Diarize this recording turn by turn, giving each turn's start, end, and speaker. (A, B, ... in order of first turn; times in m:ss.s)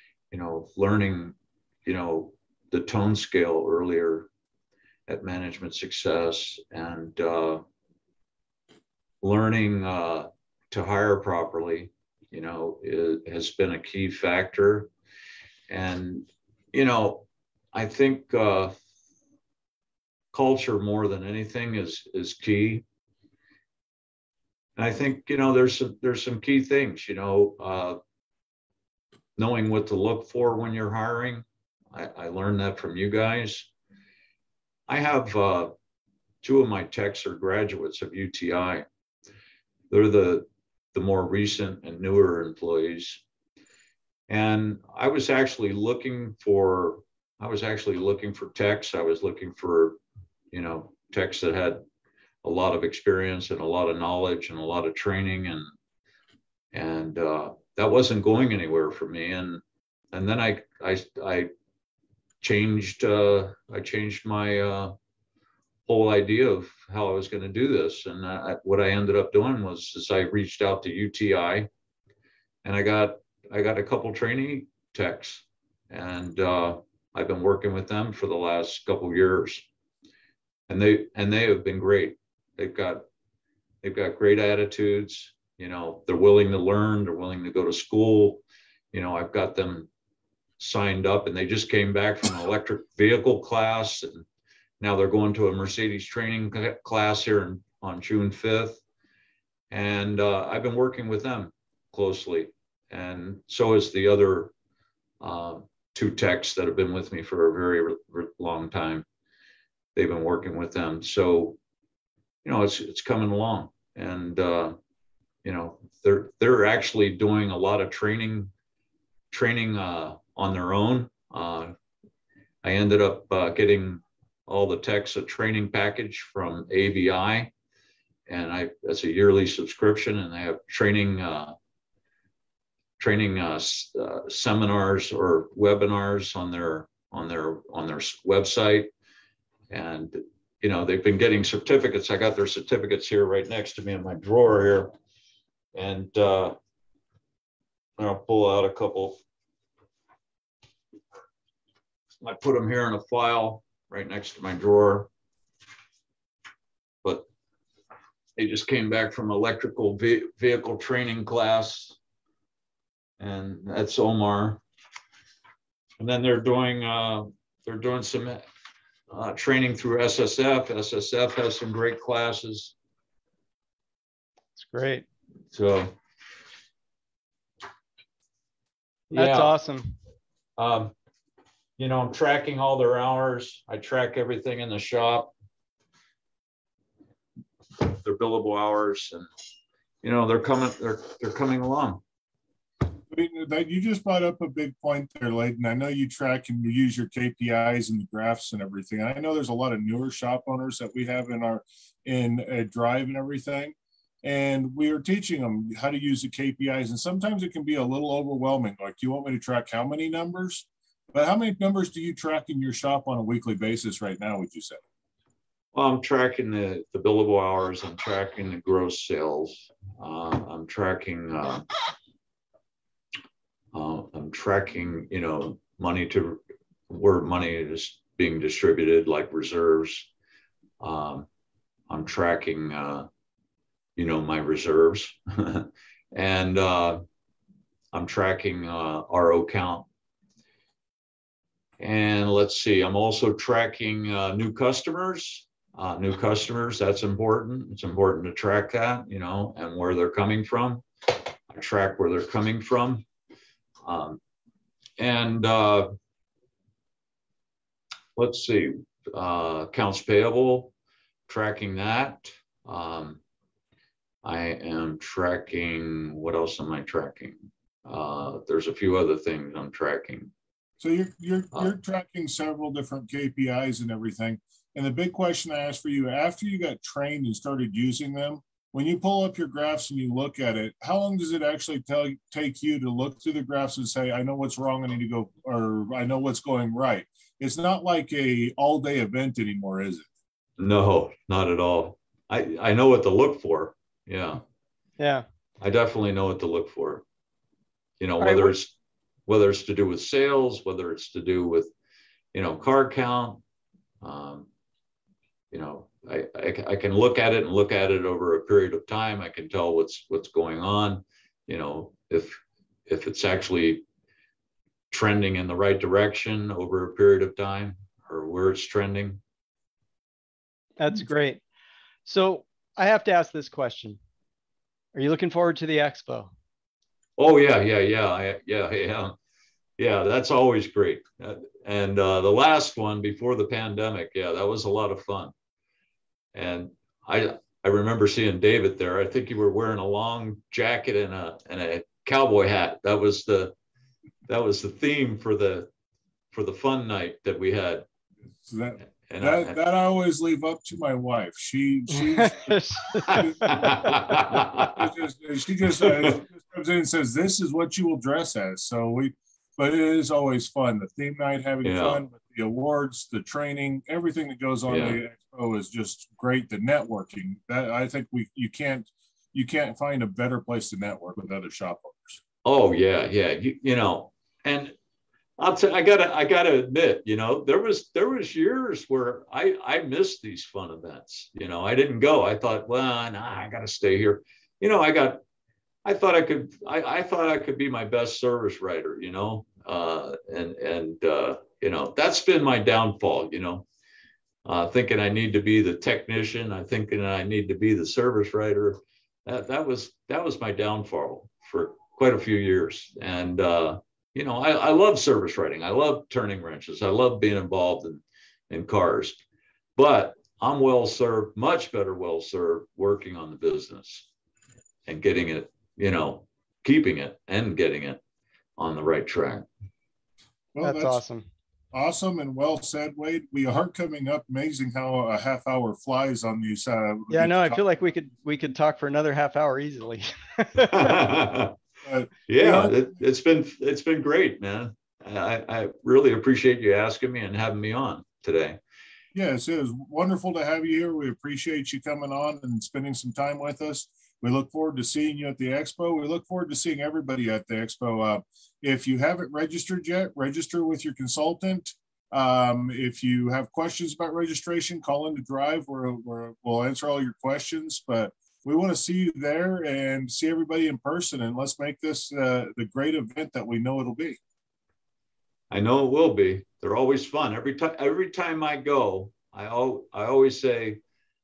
0:00.3-0:04.3 A
0:05.1-0:07.6 A
0:09.2-0:14.9 A
0:15.7-0:18.8 A
0:20.3-0:22.8 A
0:24.8-0:28.0 A
0:29.4-0:33.7 A
0:34.9-0:35.7 A
0:36.4-0:38.9 A
0:39.9-0:43.2 A
0:44.3-0:50.0 A
0:50.5-0:51.8 A
0:52.4-0:55.7 A
0:56.7-1:01.5 A
1:02.4-1:04.9 A
1:05.9-1:11.7 A
1:12.6-1:19.7 A
1:20.7-1:23.0 A
1:23.8-1:29.9 A
1:30.6-1:34.2 A
1:34.8-1:38.8 A
1:39.7-1:44.5 A
1:45.2-1:49.0 A
1:50.0-1:51.6 A
1:52.4-1:54.8 A
1:55.4-1:58.5 A
1:59.3-2:01.8 A
2:02.6-2:07.5 A
2:08.3-2:11.6 A
2:13.0-2:18.9 A
2:19.7-2:24.9 A
2:25.7-2:26.6 A
2:28.0-2:29.2 A
2:32.2-2:35.1 A
2:38.4-2:42.0 A
2:43.2-2:44.6 A
2:46.0-2:48.4 A
2:49.1-2:52.7 A
2:54.6-2:55.1 B
2:55.5-2:56.0 A
2:59.1-2:59.5 A
2:59.1-3:00.0 B
3:00.6-3:00.9 A
3:01.8-3:05.3 A
3:07.8-3:09.3 A
3:10.0-3:12.0 A
3:13.1-3:34.8 C
3:35.7-3:41.7 A
3:43.7-3:50.1 A
3:50.8-3:51.3 A
3:51.9-3:53.1 A
3:54.0-3:57.0 A
3:57.9-3:59.9 A
4:01.8-4:10.8 A
4:11.5-4:13.1 A
4:13.8-4:14.2 A
4:15.0-4:15.9 A
4:18.2-4:20.7 A
4:21.3-4:23.2 A
4:24.2-4:30.3 A
4:30.8-4:50.1 C
4:50.6-4:54.4 A
4:55.0-4:55.2 B
4:55.6-4:57.0 A
4:58.0-4:58.7 A
4:58.2-4:58.6 B
4:59.3-5:01.7 A
5:02.3-5:03.4 A
5:04.0-5:04.5 A
5:05.5-5:13.8 A
5:14.9-5:19.2 A
5:20.8-5:21.4 B
5:22.0-5:24.0 B
5:25.0-5:26.3 B
5:27.2-5:29.2 A
5:29.8-5:35.3 A
5:36.3-5:43.6 A
5:44.3-5:45.7 A
5:46.3-5:47.9 A
5:48.4-6:12.2 C
5:49.1-5:49.6 A
5:51.9-5:53.8 B
5:53.0-5:54.9 A
5:55.8-5:56.2 A
6:01.6-6:02.0 A
6:04.7-6:05.0 A
6:12.4-6:14.8 A
6:15.4-6:25.2 A
6:25.8-6:33.7 A
6:34.4-6:49.2 A
6:49.8-6:54.1 A
6:54.9-6:58.0 A
6:58.6-6:59.5 A
7:00.5-7:01.0 C
7:00.6-7:01.3 B
7:01.7-7:07.7 C
7:07.1-7:11.1 B
7:10.7-7:11.6 A
7:11.8-7:12.8 C
7:12.3-7:18.6 A
7:19.1-7:44.2 C
7:45.5-7:50.8 A